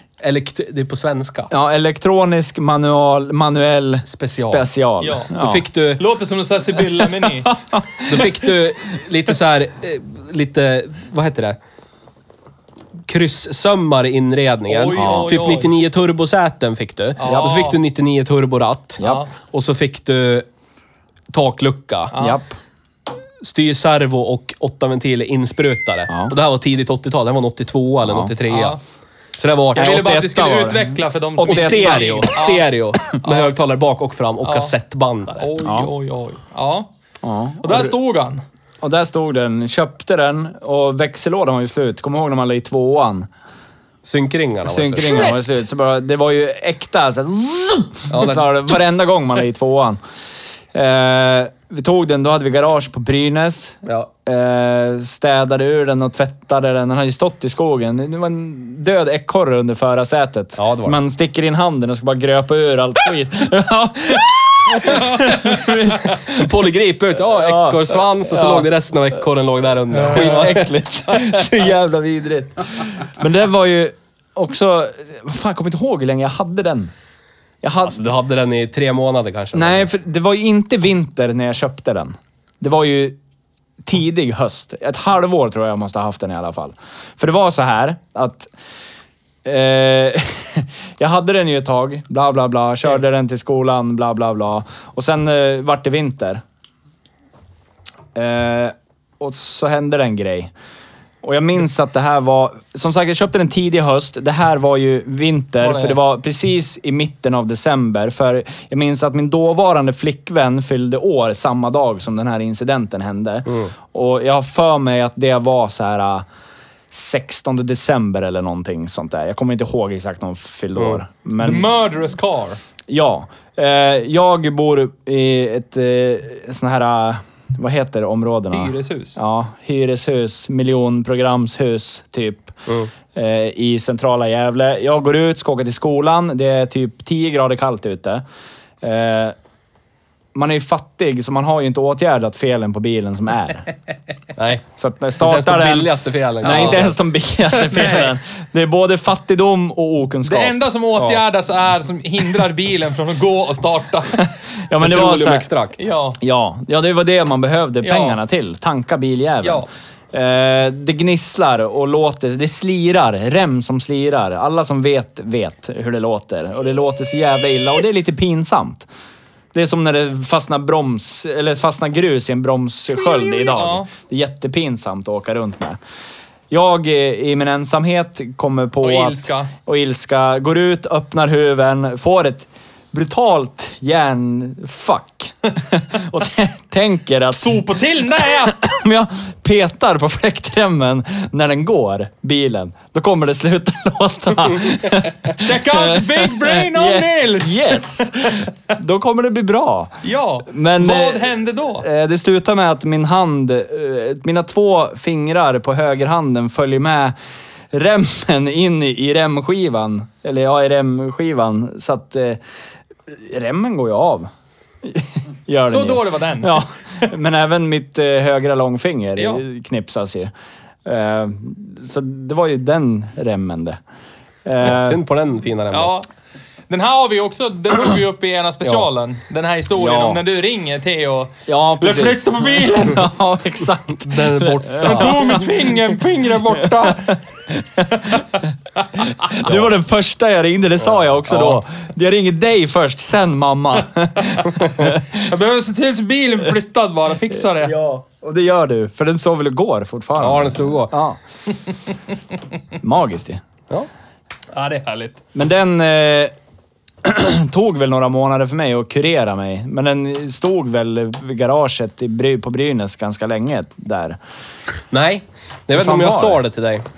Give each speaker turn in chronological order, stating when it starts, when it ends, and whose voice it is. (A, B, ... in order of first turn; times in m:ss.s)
0:00.2-0:01.5 A
0:01.5-0:05.7 B
0:04.1-0:04.7 A
0:05.0-0:05.3 C
0:05.3-0:06.0 A
0:06.0-0:07.6 C
0:07.0-0:08.6 B
0:08.1-0:11.6 A
0:13.1-0:20.5 A
0:14.7-0:15.7 C
0:15.0-0:15.3 B
0:17.2-0:17.8 C
0:17.3-0:17.6 B
0:19.0-0:19.3 C
0:21.3-0:22.1 A
0:22.1-0:22.4 C
0:22.2-0:22.6 B
0:23.4-0:28.8 A
0:26.1-0:26.4 B
0:28.0-0:28.3 B
0:28.5-0:28.8 C
0:29.4-0:30.1 A
0:29.8-0:32.4 B
0:29.8-0:32.7 C
0:31.4-0:35.5 A
0:33.2-0:33.5 C
0:34.4-0:34.8 C
0:35.4-0:36.9 C
0:35.6-0:35.9 B
0:37.2-0:38.0 B
0:37.6-0:38.4 C
0:38.8-0:43.3 B
0:44.0-0:45.3 A
0:44.6-0:50.0 B
0:45.0-0:45.4 C
0:48.1-0:48.5 A
0:50.7-1:06.5 B
1:00.6-1:01.0 A
1:05.4-1:10.7 A
1:07.3-1:08.7 B
1:09.9-1:16.9 B
1:17.6-1:18.1 B
1:17.8-1:19.9 A
1:19.5-1:23.2 B
1:23.8-1:28.5 B
1:29.4-1:36.4 B
1:38.2-1:40.5 B
1:41.2-1:56.2 B
1:45.7-1:45.9 C
1:53.5-1:53.7 A
1:56.9-2:01.7 B
2:01.4-2:02.6 C
2:02.9-2:12.6 B
2:08.5-2:09.2 C
2:13.1-2:18.2 B
2:18.8-2:19.4 B
2:20.3-2:23.7 B
2:24.4-2:24.6 A
2:24.8-2:30.6 B
2:25.2-2:27.0 A
2:26.4-2:26.9 C
2:27.6-2:28.1 C
2:30.2-2:34.2 C
2:34.2-2:35.5 B
2:34.8-2:35.8 A
2:35.8-2:36.2 C
2:36.2-2:48.9 B
2:37.8-2:38.2 C
2:39.4-2:39.7 C
2:49.5-2:55.8 B
2:52.9-2:53.9 C
2:56.5-3:07.6 B
2:58.8-2:59.5 C
3:07.3-3:08.6 C
3:08.2-3:27.2 B
3:15.3-3:18.1 C
3:20.0-3:21.9 C
3:27.7-3:32.4 B
3:33.1-3:34.3 B
3:34.8-3:40.3 B
3:35.7-3:36.6 C
3:39.2-3:39.4 C
3:40.8-3:43.8 B
3:44.4-3:45.0 B
3:44.6-3:45.9 A
3:45.7-3:46.1 C
3:46.7-3:53.0 C
3:49.8-3:50.2 B
3:51.5-3:55.7 B
3:54.0-3:55.4 A
3:54.8-3:57.2 C
3:56.8-3:58.5 B
3:59.0-4:05.1 B
3:59.4-3:59.8 A
4:04.7-4:07.8 C
4:07.6-4:11.2 B
4:10.2-4:10.9 A
4:12.8-4:13.4 B
4:14.5-4:15.2 C
4:15.4-4:16.3 B
4:17.0-4:24.2 B
4:24.9-4:26.8 A
4:25.7-4:26.4 B